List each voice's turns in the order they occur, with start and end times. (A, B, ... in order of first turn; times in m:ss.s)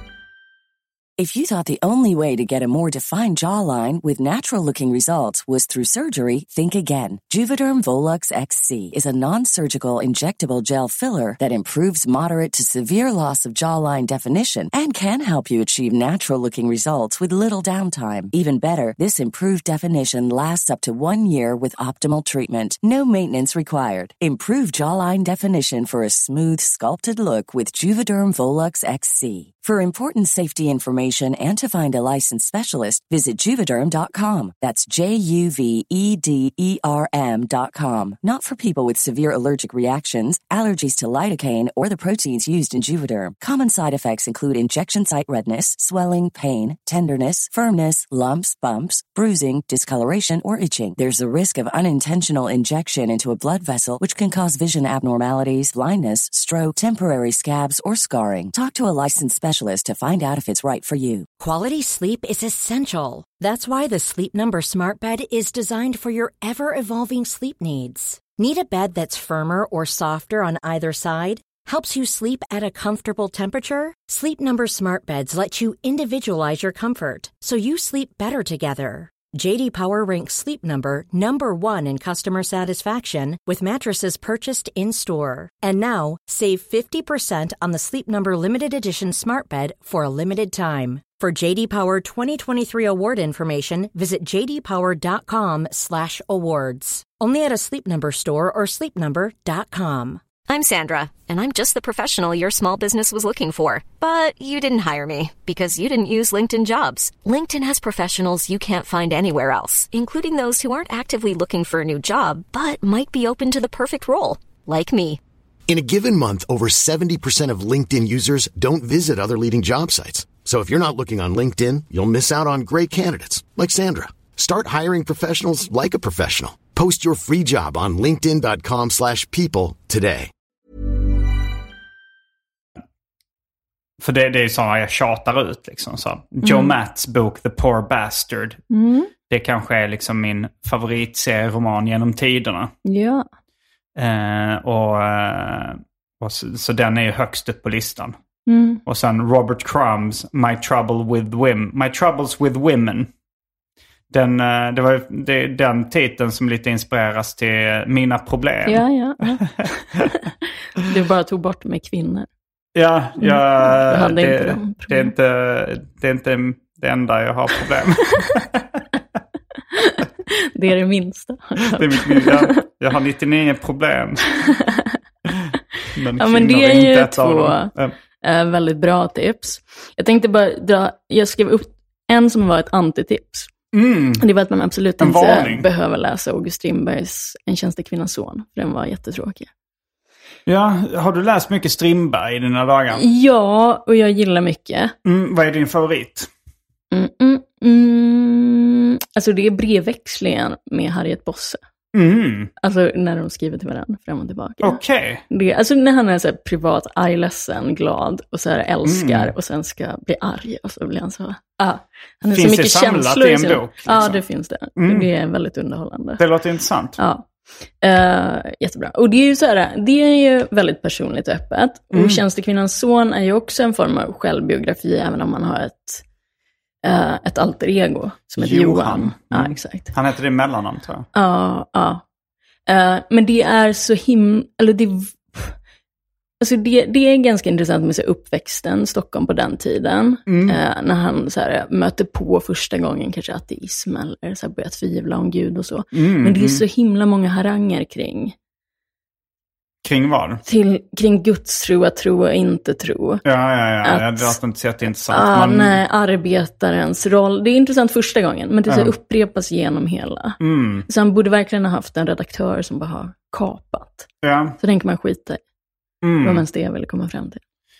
0:01.2-1:01.3 A
1:01.4-1:40.2 B
1:40.5-1:55.2 C
1:55.7-2:10.3 D
2:14.0-2:18.6 E
2:16.4-2:16.7 F
2:18.7-2:19.1 F
2:19.3-2:22.7 E
2:22.8-2:23.2 F
2:24.0-2:28.2 E
2:28.5-2:28.8 F
2:28.9-2:33.1 E
2:34.1-2:40.0 E
2:38.7-2:42.3 F
2:42.8-2:48.8 E
2:43.2-2:45.1 F
2:49.8-2:52.6 F
2:51.7-2:54.2 E
2:54.4-2:54.9 F
2:55.4-2:58.0 E
2:56.2-3:03.5 F
3:03.7-3:04.2 E
3:04.2-3:09.5 F
3:05.0-3:05.7 E
3:10.5-3:13.0 E
3:12.9-3:14.9 F
3:15.0-3:16.3 E
3:16.9-3:21.6 F
3:21.9-3:22.5 E
3:22.6-3:36.2 F
3:24.6-3:25.2 E
3:28.8-3:29.3 E
3:32.3-3:34.2 E
3:34.8-3:35.1 E
3:36.2-3:37.0 E
3:37.0-3:37.3 F
3:37.8-3:46.0 F
3:41.9-3:42.2 E
3:46.8-3:49.9 F
3:48.4-3:51.1 E
3:51.2-3:52.0 F
3:52.7-3:55.6 F
3:56.4-4:08.4 F
4:00.3-4:00.6 E
4:05.9-4:06.6 E
4:09.8-4:10.4 E
4:10.5-4:13.2 F
4:13.2-4:15.8 E
4:13.8-4:14.4 F
4:15.1-4:24.1 F
4:18.7-4:18.9 E
4:20.4-4:20.9 E
4:24.2-4:24.6 E
4:24.6-4:25.4 F
4:26.0-4:26.4 E
4:26.2-4:27.4 F